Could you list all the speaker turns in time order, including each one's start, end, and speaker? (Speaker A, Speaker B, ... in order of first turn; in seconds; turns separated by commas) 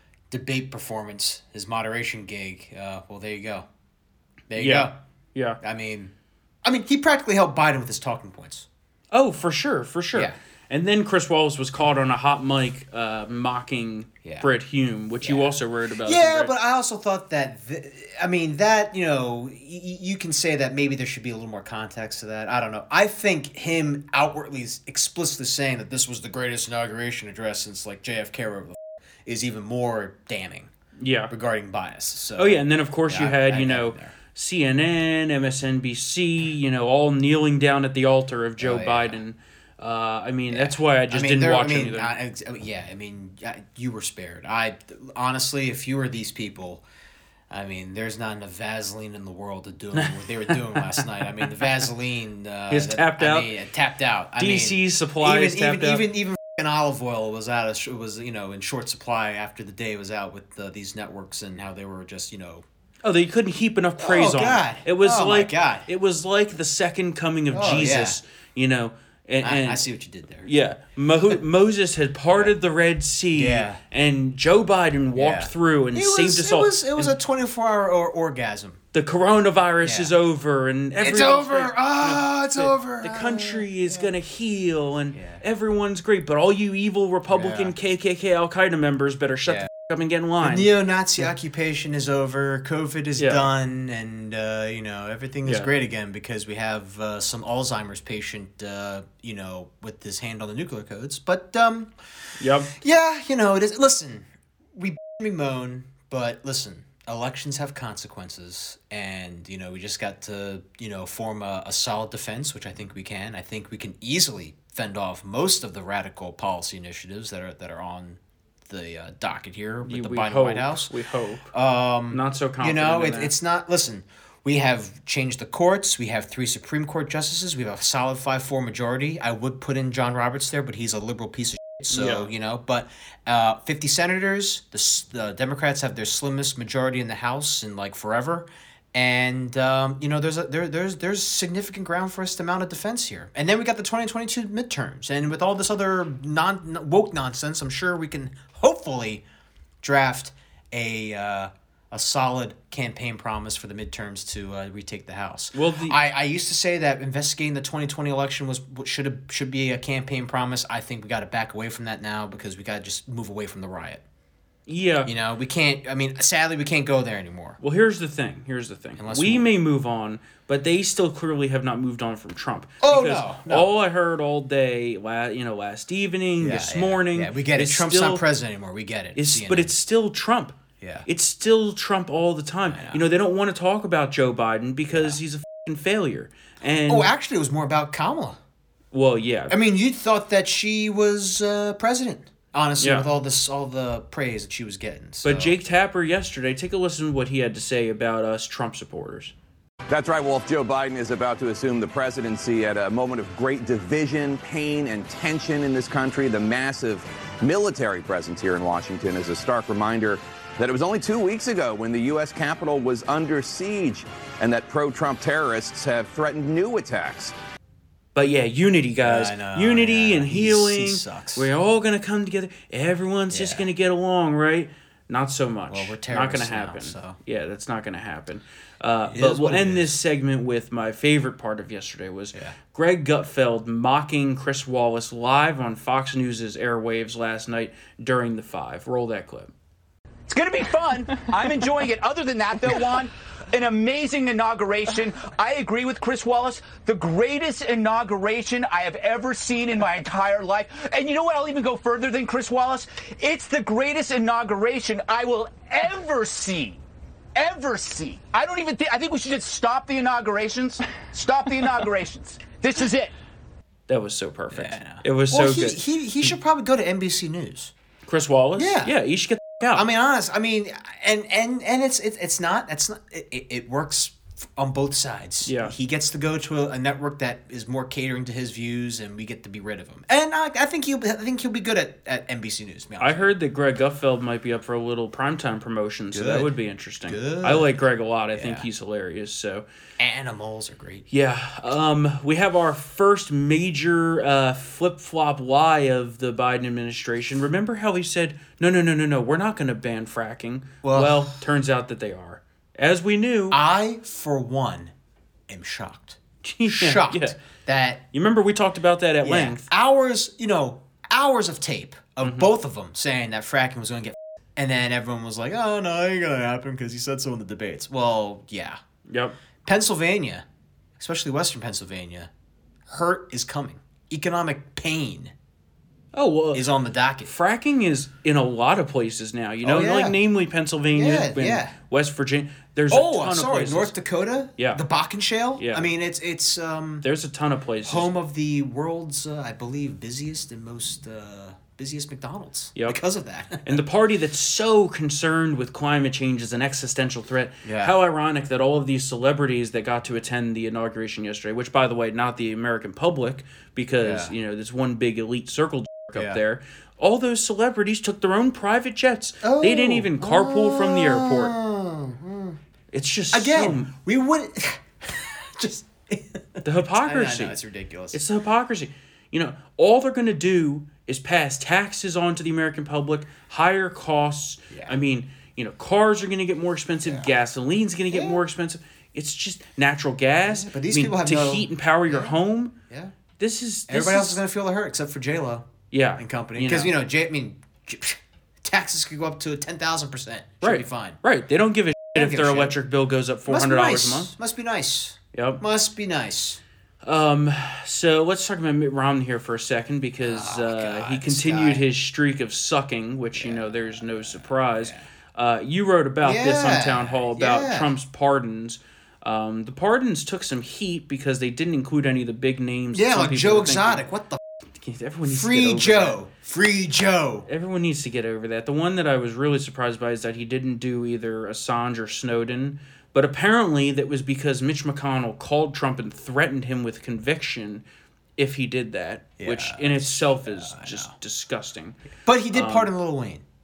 Speaker A: 0.3-3.7, Speaker A: 4.5-5.0, Speaker B: 4.6-5.6, Speaker A: 5.6-6.1, Speaker A: 6.6-8.7, Speaker B: 9.1-16.5, Speaker A: 15.2-30.7, Speaker B: 31.0-31.3, Speaker A: 31.3-34.1, Speaker B: 32.4-42.1, Speaker A: 38.6-39.2, Speaker A: 40.5-46.8, Speaker A: 47.5-62.6, Speaker B: 50.0-51.0, Speaker B: 52.7-53.5, Speaker B: 54.4-56.0, Speaker B: 63.0-69.8, Speaker A: 64.0-65.9, Speaker A: 67.5-68.2, Speaker A: 69.4-70.5, Speaker B: 70.4-77.1, Speaker A: 73.3-73.8, Speaker A: 75.1-78.8, Speaker B: 78.9-90.7, Speaker A: 79.8-80.1, Speaker A: 81.0-84.1, Speaker A: 85.1-85.4, Speaker A: 87.3-87.7, Speaker A: 90.4-101.9, Speaker B: 93.2-93.5, Speaker B: 95.4-95.7, Speaker B: 102.4-102.7, Speaker A: 102.7-120.9, Speaker B: 119.8-121.5, Speaker A: 121.5-149.2, Speaker B: 122.1-123.3, Speaker B: 131.9-132.3, Speaker A: 149.8-164.0, Speaker B: 155.5-156.0, Speaker B: 164.7-165.1, Speaker A: 165.0-167.6, Speaker B: 167.6-178.2, Speaker A: 169.0-169.5, Speaker A: 172.8-173.7, Speaker A: 176.4-179.7, Speaker B: 179.1-187.1, Speaker A: 180.8-181.1, Speaker A: 182.7-183.0, Speaker A: 184.9-185.2, Speaker A: 186.9-188.4, Speaker B: 188.9-189.5, Speaker A: 189.5-195.5, Speaker B: 192.8-193.1, Speaker B: 195.2-199.3, Speaker C: 199.9-217.3, Speaker B: 218.1-239.5, Speaker A: 219.0-221.5, Speaker A: 223.3-223.7, Speaker A: 225.7-227.2, Speaker A: 229.1-230.0, Speaker D: 240.3-256.8, Speaker D: 257.3-263.1, Speaker B: 263.9-266.3, Speaker A: 264.5-267.7, Speaker B: 268.1-269.9, Speaker A: 268.6-268.9, Speaker A: 269.7-283.3, Speaker B: 275.4-275.7, Speaker B: 283.0-289.6, Speaker A: 286.1-286.5, Speaker A: 287.1-287.7, Speaker A: 288.3-288.6, Speaker A: 290.0-291.1, Speaker B: 291.1-303.6, Speaker A: 300.8-301.3, Speaker A: 303.5-304.9, Speaker A: 305.5-308.0, Speaker B: 306.4-307.3, Speaker B: 308.1-309.7, Speaker A: 309.2-318.8, Speaker B: 312.2-312.5, Speaker B: 319.1-319.3, Speaker A: 319.6-320.4, Speaker A: 321.0-322.3, Speaker A: 322.9-325.3, Speaker B: 326.1-326.6, Speaker A: 326.5-327.3, Speaker B: 327.2-333.9, Speaker A: 329.6-330.2, Speaker A: 330.9-331.7, Speaker A: 332.9-337.1, Speaker B: 335.6-335.9, Speaker B: 337.0-338.1, Speaker A: 337.8-343.8, Speaker B: 343.6-361.6, Speaker A: 347.6-347.9, Speaker A: 354.0-354.3, Speaker A: 356.1-356.4, Speaker A: 359.4-362.6, Speaker B: 362.9-363.9, Speaker A: 363.3-368.2, Speaker B: 366.6-367.6, Speaker B: 368.1-382.7, Speaker A: 374.7-375.0, Speaker A: 377.0-377.3, Speaker A: 378.1-378.4, Speaker A: 380.4-382.3, Speaker A: 382.9-383.1, Speaker B: 383.4-384.4, Speaker A: 383.9-391.2, Speaker B: 385.9-386.9, Speaker B: 390.6-394.3, Speaker A: 392.1-392.8, Speaker A: 393.4-396.6, Speaker B: 395.3-395.6, Speaker B: 397.0-414.0, Speaker A: 400.2-401.8, Speaker A: 403.3-405.1, Speaker A: 406.2-407.9, Speaker A: 412.9-414.4, Speaker B: 414.8-416.2, Speaker A: 415.2-417.5, Speaker B: 417.5-427.8, Speaker B: 428.4-432.0, Speaker A: 429.4-431.1, Speaker A: 432.2-433.4, Speaker B: 432.5-432.9